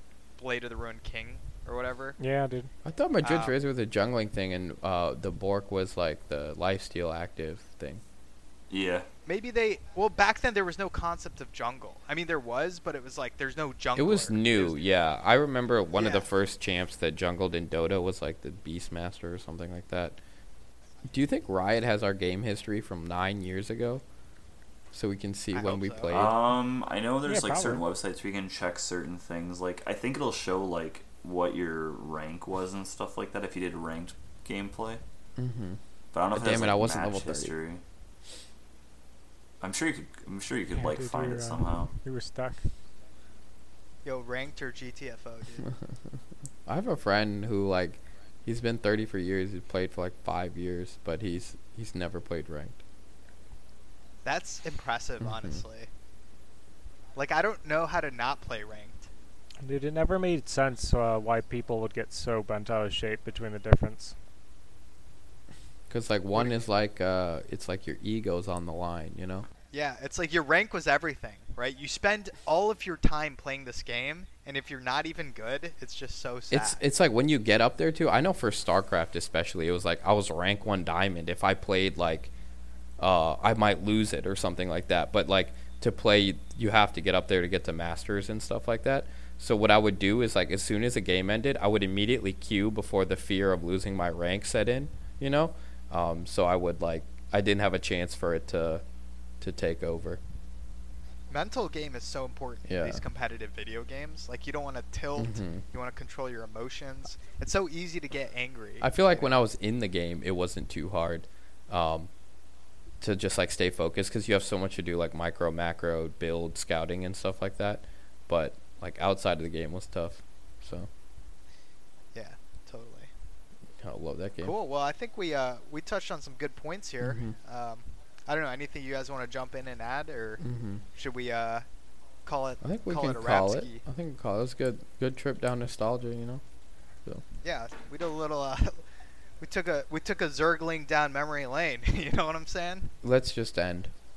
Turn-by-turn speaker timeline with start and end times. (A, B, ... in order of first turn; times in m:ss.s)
0:00.4-0:02.2 A
0:02.2-0:02.7 B
0:02.8-0:08.0 C
0:03.2-0:03.5 A
0:08.7-0:09.1 D
0:09.2-0:14.8 A
0:13.9-0:20.2 C
0:15.9-0:16.3 A
0:21.1-0:24.0 C
0:24.9-0:26.3 C
0:25.5-0:26.2 A
0:26.1-0:35.0 D
0:27.2-0:27.8 B
0:35.4-0:35.8 C
0:36.1-0:37.8 D
0:36.3-0:37.5 C
0:39.6-0:41.9 D
0:40.7-0:42.7 B
0:44.0-0:45.7 A
0:46.6-0:52.8 C
0:54.2-0:55.9 A
0:55.2-0:55.6 C
0:57.1-0:59.1 A
0:59.6-1:04.1 B
1:05.9-1:09.4 C
1:09.7-1:16.8 A
1:16.5-1:22.3 C
1:23.0-1:38.8 C
1:39.4-1:40.2 C
1:41.3-1:49.3 A
1:42.7-1:43.0 C
1:45.2-1:45.6 C
1:48.8-1:52.1 C
1:53.0-2:00.9 C
2:02.1-2:03.1 A
2:03.8-2:04.5 C
2:04.4-2:11.6 A
2:07.0-2:07.3 C
2:10.4-2:10.8 C
2:12.2-2:13.8 A
2:12.6-2:16.4 C
2:17.4-2:18.8 A
2:19.4-2:22.9 A
2:23.0-2:23.9 C